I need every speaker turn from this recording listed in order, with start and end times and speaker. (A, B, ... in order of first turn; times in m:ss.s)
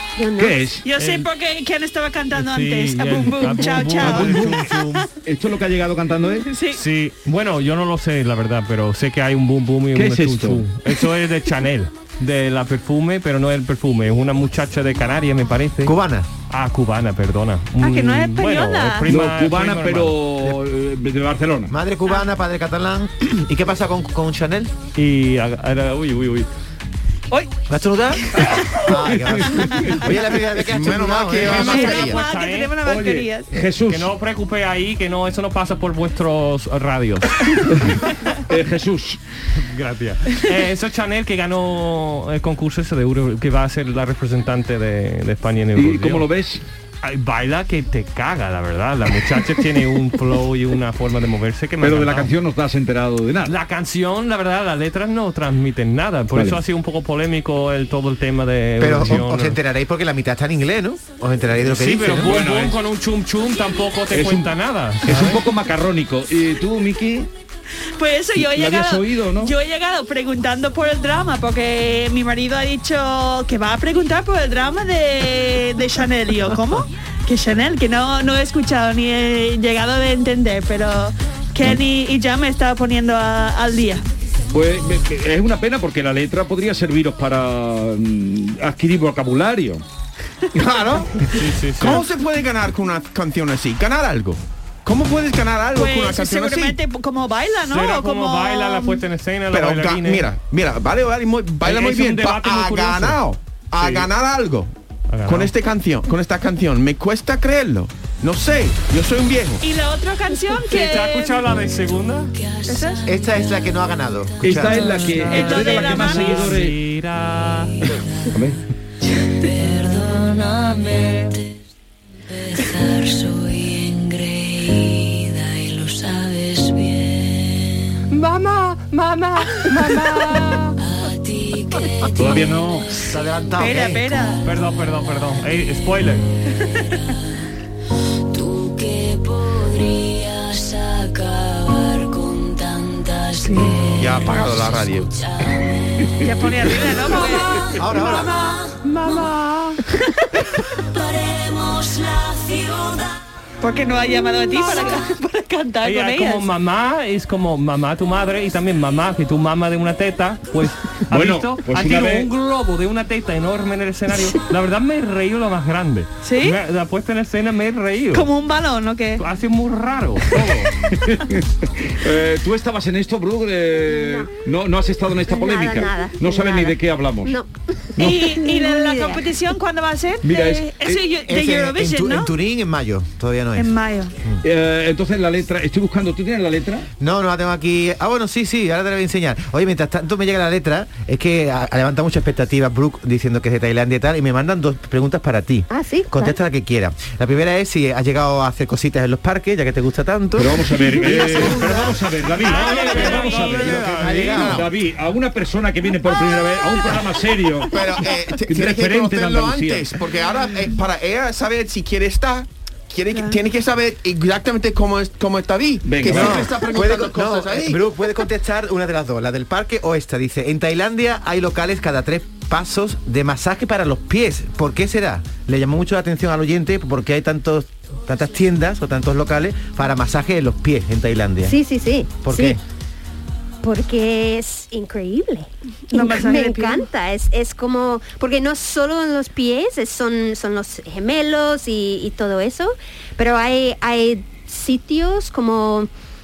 0:00.2-0:00.7 A
0:00.4-0:00.8 B
0:00.8-0:04.4 C
0:01.0-0:01.3 D
0:02.4-0:05.1 D
0:04.0-0:06.5 B
0:06.4-0:06.8 C
0:06.7-0:15.9 D
0:09.9-0:10.6 B
0:15.8-0:16.3 E
0:16.5-0:20.2 D
0:17.8-0:19.1 C
0:19.1-0:21.7 B
0:21.7-0:24.7 E
0:24.9-0:26.5 D
0:27.7-0:32.0 E
0:28.4-0:30.1 B
0:30.6-0:32.2 F
0:31.4-0:32.7 D
0:31.6-0:33.5 C
0:32.8-0:34.1 B
0:33.9-0:37.6 D
0:37.7-0:39.2 B
0:39.6-0:46.3 D
0:45.8-0:46.6 B
0:47.0-0:52.3 D
0:51.8-0:53.5 B
0:53.4-0:59.6 D
0:56.3-0:56.6 B
0:58.8-1:02.3 E
1:01.6-1:05.4 D
1:02.1-1:02.8 B
1:04.1-1:07.3 B
1:08.0-1:24.0 C
1:08.4-1:09.5 B
1:24.5-1:29.8 B
1:30.6-1:31.2 F
1:31.3-1:32.1 D
1:31.8-1:36.8 F
1:35.7-1:39.0 C
1:37.7-1:40.3 D
1:39.5-1:44.7 F
1:41.6-1:43.2 D
1:43.8-1:44.1 D
1:45.1-1:45.5 D
1:45.2-1:49.6 F
1:49.6-1:51.4 C
1:50.6-1:52.3 D
1:51.6-1:56.0 G
1:52.7-1:53.0 C
1:53.0-1:54.7 E
1:54.4-1:56.8 B
1:55.0-1:57.7 D
1:55.3-1:56.6 C
1:57.2-1:58.4 G
1:59.1-2:01.6 G
2:02.3-2:08.0 G
2:08.1-2:10.8 D
2:10.8-2:12.8 G
2:12.2-2:12.9 B
2:12.9-2:14.2 E
2:13.6-2:14.4 C
2:14.4-2:16.2 D
2:16.9-2:17.2 G
2:18.3-2:29.5 G
2:24.0-2:25.1 F
2:26.2-2:28.2 C
2:27.8-2:28.4 E
2:28.8-2:29.7 D
2:30.7-2:33.2 G
2:33.6-2:36.5 C
2:34.6-2:35.0 G
2:35.8-2:48.3 D
2:41.1-2:42.3 B
2:46.2-2:46.6 C
2:48.1-2:49.2 C
2:49.2-2:50.7 D
2:50.9-2:57.3 B
2:53.8-2:54.3 A
2:55.2-2:59.3 A
2:58.0-3:02.3 C
3:00.2-3:01.0 B
3:01.3-3:03.7 E
3:03.6-3:04.1 C
3:04.4-3:06.9 B
3:07.0-3:21.9 E
3:15.7-3:16.4 A
3:20.4-3:29.9 B
3:22.4-3:24.5 D
3:22.6-3:24.6 F
3:23.6-3:24.7 E
3:27.7-3:37.8 F
3:33.1-3:33.4 C
3:35.8-3:36.5 B
3:36.0-3:51.6 E
3:51.4-3:52.6 A
3:52.2-3:52.6 E
3:53.6-4:05.9 A
3:55.9-3:56.8 C